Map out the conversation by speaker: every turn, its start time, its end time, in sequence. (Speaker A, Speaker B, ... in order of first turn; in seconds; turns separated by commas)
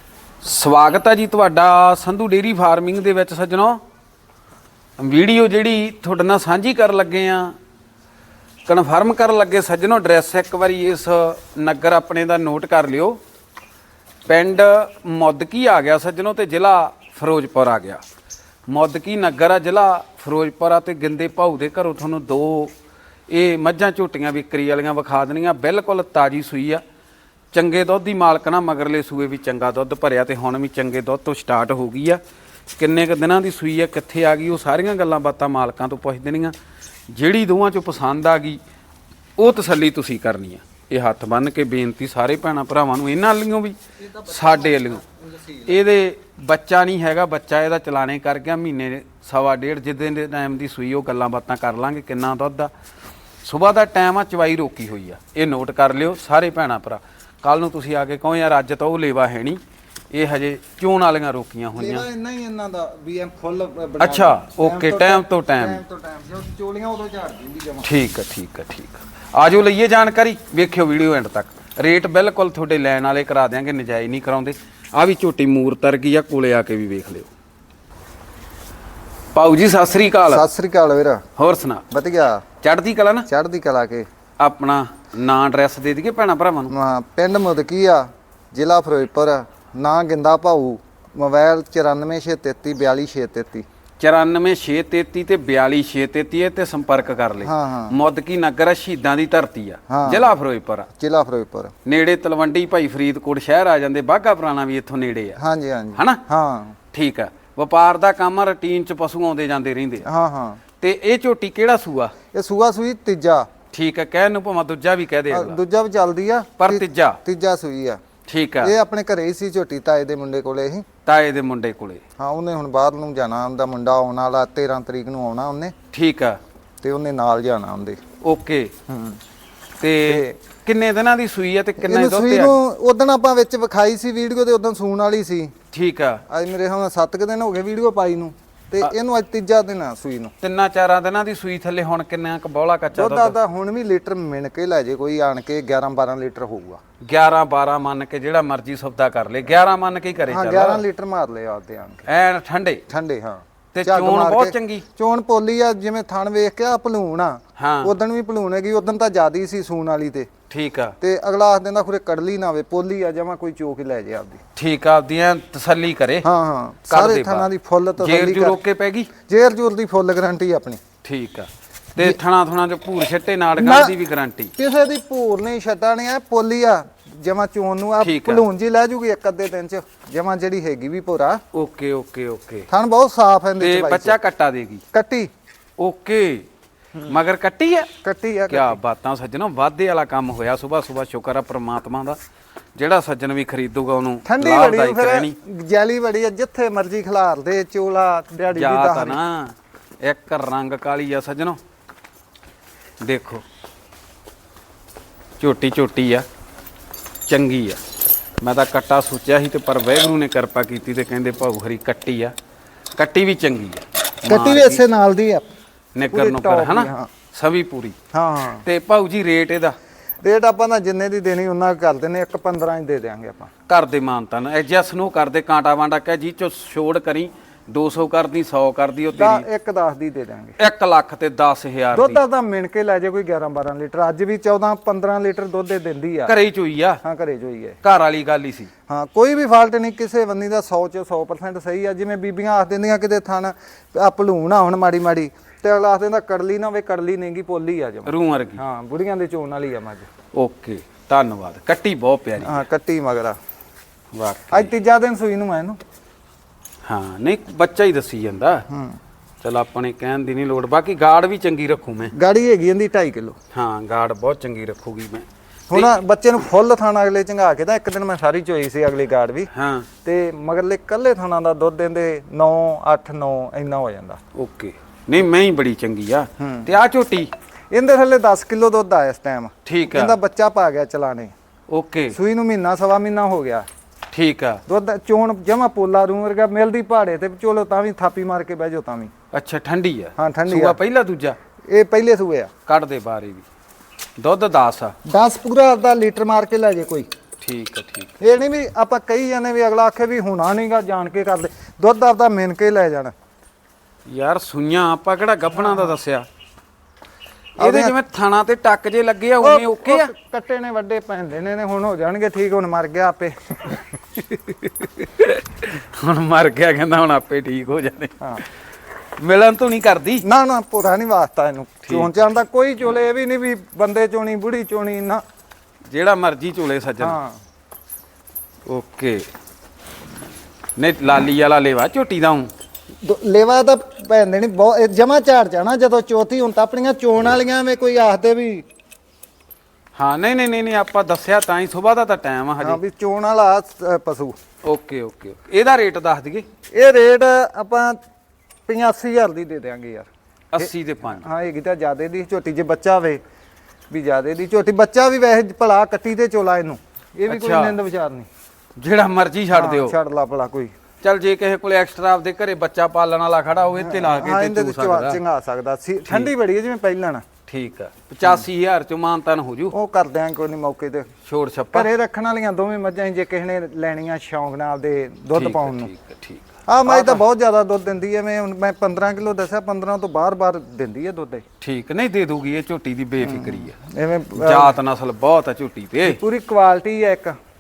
Speaker A: 0.4-3.8, Speaker A: 5.0-7.6, Speaker A: 8.7-13.2, Speaker A: 14.3-18.0, Speaker A: 18.7-22.7, Speaker A: 23.3-26.8, Speaker A: 27.5-32.2, Speaker A: 32.8-36.5, Speaker A: 37.1-38.6, Speaker A: 39.4-45.0, Speaker B: 44.2-45.5, Speaker A: 45.6-52.7, Speaker A: 53.4-59.6, Speaker A: 60.1-62.0, Speaker B: 61.8-67.9, Speaker A: 64.0-65.8, Speaker A: 67.8-77.3, Speaker A: 79.3-80.5, Speaker B: 80.3-81.2, Speaker A: 81.4-81.8, Speaker B: 81.9-82.4, Speaker A: 82.6-83.3, Speaker B: 83.3-84.1, Speaker A: 84.4-86.7, Speaker B: 86.7-93.7, Speaker A: 94.0-100.9, Speaker B: 97.4-97.9, Speaker B: 99.9-100.3, Speaker B: 101.0-101.7, Speaker A: 101.8-105.4, Speaker B: 105.4-106.8, Speaker A: 106.0-106.2, Speaker A: 106.9-110.1, Speaker B: 110.0-110.6, Speaker A: 110.8-112.2, Speaker B: 112.3-113.5, Speaker A: 113.7-115.6, Speaker B: 115.3-118.0, Speaker A: 116.6-117.2, Speaker A: 118.3-118.7, Speaker B: 118.6-120.8, Speaker A: 121.0-122.0, Speaker B: 122.2-125.7, Speaker A: 125.9-126.4, Speaker B: 126.8-128.0, Speaker A: 128.2-128.7, Speaker B: 128.9-129.2, Speaker A: 129.8-132.6, Speaker B: 130.1-130.4, Speaker B: 131.8-135.5, Speaker A: 135.7-136.2, Speaker B: 136.3-140.3, Speaker A: 140.4-143.4, Speaker B: 142.9-146.8, Speaker A: 147.0-150.8, Speaker B: 150.2-152.1, Speaker A: 152.1-152.8, Speaker B: 152.9-160.3, Speaker A: 153.7-154.9, Speaker A: 157.6-157.9, Speaker A: 160.5-160.9, Speaker B: 161.0-164.4, Speaker A: 164.6-166.3, Speaker B: 166.2-168.6, Speaker A: 166.9-169.1, Speaker B: 169.3-170.8, Speaker A: 171.0-174.5, Speaker B: 173.6-174.0, Speaker B: 174.6-181.4, Speaker A: 178.0-178.4, Speaker A: 181.5-182.7, Speaker B: 182.7-184.2, Speaker A: 183.6-184.8, Speaker B: 184.9-185.3, Speaker A: 185.8-186.5, Speaker A: 187.1-187.9, Speaker B: 188.0-188.8, Speaker A: 188.5-192.2, Speaker A: 192.8-195.4, Speaker B: 194.2-199.2, Speaker A: 198.5-201.6, Speaker A: 203.0-203.4, Speaker A: 205.4-206.2, Speaker A: 207.3-207.8, Speaker A: 208.4-212.3, Speaker A: 213.0-214.8, Speaker B: 214.3-215.5, Speaker A: 215.9-218.0, Speaker B: 216.1-217.1, Speaker B: 218.1-218.7, Speaker A: 218.6-219.8, Speaker B: 220.2-223.5, Speaker A: 223.7-229.5, Speaker B: 229.1-230.6, Speaker A: 230.6-232.2, Speaker B: 231.9-236.3, Speaker A: 236.3-237.0, Speaker B: 237.0-237.8, Speaker A: 237.8-238.7, Speaker B: 238.9-250.1, Speaker A: 248.1-248.6, Speaker A: 250.3-252.7, Speaker B: 252.4-253.4, Speaker A: 254.1-254.7, Speaker B: 254.5-255.8, Speaker A: 256.9-258.6, Speaker B: 258.7-259.0, Speaker A: 259.4-262.1, Speaker B: 262.1-263.4, Speaker A: 263.5-265.9, Speaker B: 265.7-269.5, Speaker A: 269.5-269.9, Speaker B: 270.1-274.2, Speaker A: 274.4-277.3, Speaker B: 276.4-276.7, Speaker B: 277.7-281.3, Speaker A: 279.6-280.1, Speaker A: 281.7-282.2, Speaker B: 282.1-283.7, Speaker A: 284.1-284.6, Speaker B: 284.7-289.1, Speaker A: 289.3-291.4, Speaker B: 290.2-290.8, Speaker B: 291.7-292.5, Speaker A: 292.7-293.5, Speaker A: 294.2-294.9, Speaker B: 295.1-297.1, Speaker A: 297.4-298.2, Speaker B: 298.2-303.1, Speaker A: 304.1-306.3, Speaker B: 305.6-306.0, Speaker A: 307.6-310.1, Speaker B: 307.6-308.0, Speaker B: 309.4-313.8, Speaker A: 314.1-318.2, Speaker A: 319.2-320.3, Speaker B: 320.2-325.2, Speaker A: 321.9-322.1, Speaker A: 325.9-327.2, Speaker B: 327.0-327.4, Speaker A: 328.7-329.3, Speaker A: 330.8-332.5, Speaker B: 333.0-338.6, Speaker A: 339.9-342.8, Speaker B: 342.6-344.4, Speaker A: 344.6-346.5, Speaker B: 346.7-348.0, Speaker B: 348.7-353.2, Speaker A: 350.5-351.2, Speaker B: 353.9-358.3, Speaker A: 357.3-357.8, Speaker A: 358.8-360.0, Speaker B: 359.5-360.7, Speaker A: 361.0-365.2, Speaker B: 363.8-367.2, Speaker A: 367.5-369.8, Speaker B: 369.7-371.1, Speaker A: 371.2-371.9, Speaker B: 371.7-375.9, Speaker A: 375.3-377.2, Speaker B: 376.7-381.4, Speaker A: 381.6-383.8, Speaker B: 383.2-384.8, Speaker A: 384.3-386.2, Speaker B: 386.1-387.4